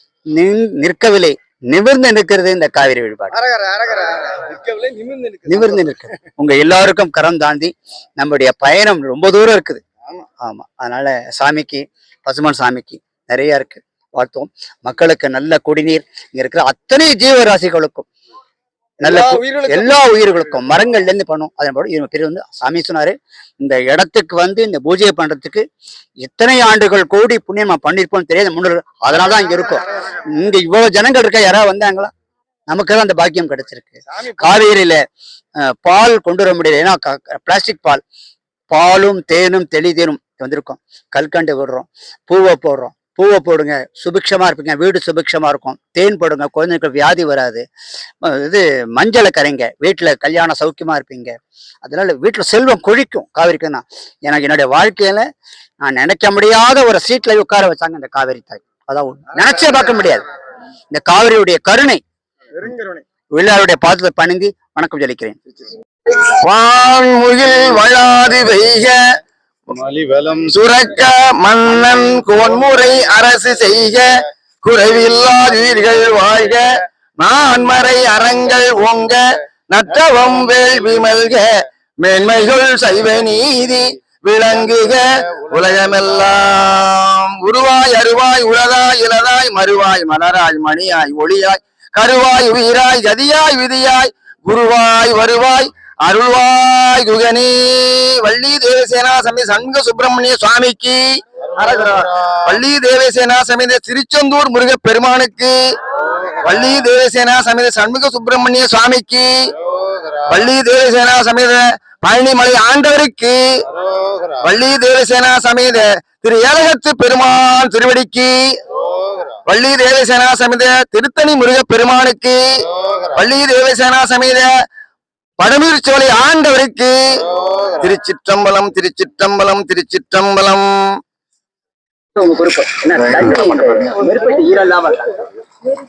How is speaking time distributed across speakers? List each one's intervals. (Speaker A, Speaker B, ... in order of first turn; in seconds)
Speaker A: 0.3-3.4, 5.5-9.8, 10.4-18.1, 19.0-25.6, 26.2-32.1, 32.7-35.0, 35.8-38.0, 38.7-47.6, 48.2-51.3, 51.8-55.3, 55.8-60.2, 60.9-62.0, 63.3-65.4
Speaker B: 3.3-4.5, 34.1-34.5, 62.6-63.0, 132.8-135.0
Speaker C: 4.4-5.6, 19.1-19.9, 66.1-69.0, 70.5-74.1, 74.6-76.7, 77.2-81.5, 82.0-105.6, 106.4-109.5, 110.3-113.4, 114.4-118.3, 119.5-122.4, 123.1-124.5, 125.4-127.2, 127.8-130.7